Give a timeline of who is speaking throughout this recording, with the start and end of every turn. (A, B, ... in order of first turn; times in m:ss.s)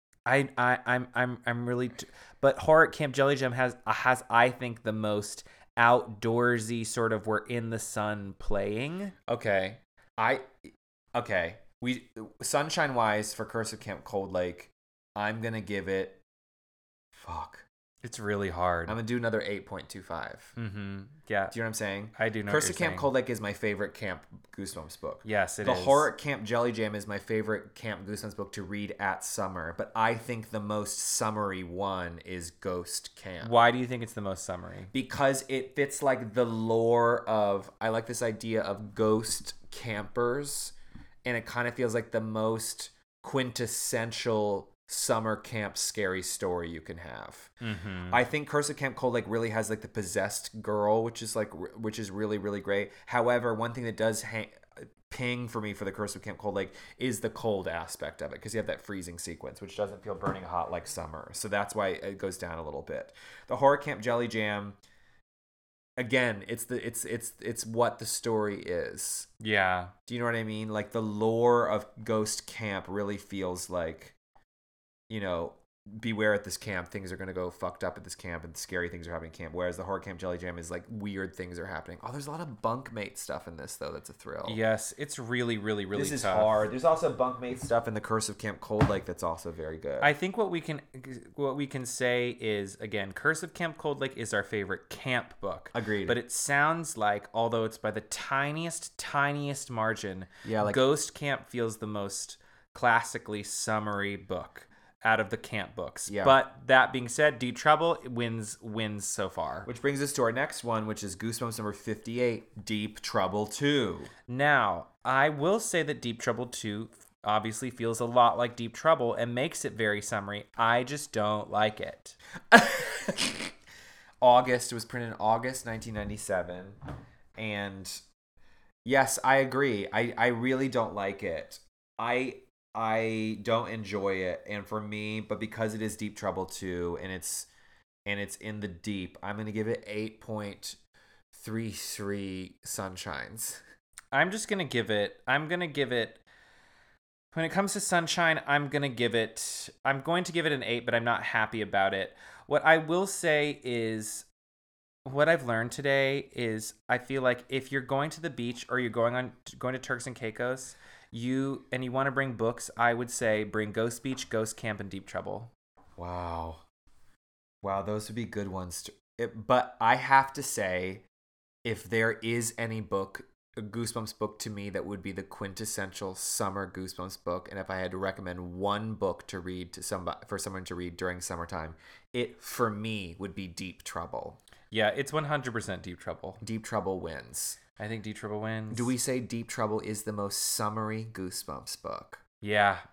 0:00.3-0:09.2 A
0:09.3-0:16.2 B
0:17.1-0:17.6 B
0:18.0-0:19.0 A
0:18.9-0:20.6 B
0:20.6-0:21.5 A
0:21.5-0:33.5 B
0:22.2-0:23.1 A
0:25.2-0:26.1 A
0:33.4-0:34.9 A
0:34.9-0:40.7 B
0:41.2-0:47.5 B
0:47.6-0:48.2 A
0:48.1-1:04.8 B
1:06.0-1:09.3 B
1:09.4-1:09.9 A
1:10.1-1:14.2 B
1:15.1-1:24.6 B
1:24.4-1:26.5 A
1:26.0-1:30.1 B
1:30.0-1:49.7 A
1:35.7-1:36.2 B
1:40.4-1:40.8 B
1:46.1-1:46.4 B
1:49.6-1:54.1 B
1:54.3-2:02.2 A
2:02.5-2:03.5 B
2:04.2-2:06.8 B
2:07.4-2:08.0 B
2:08.8-2:17.5 B
2:18.1-2:20.8 B
2:21.3-2:23.6 B
2:24.1-2:26.2 A
2:27.3-2:34.2 A
2:35.0-2:45.5 A
2:46.0-2:46.6 B
2:47.6-2:51.0 B
2:51.6-3:04.4 B
3:04.7-3:06.4 A
3:06.4-3:07.6 B
3:07.8-3:08.9 A
3:08.7-3:12.2 B
3:12.4-3:12.8 A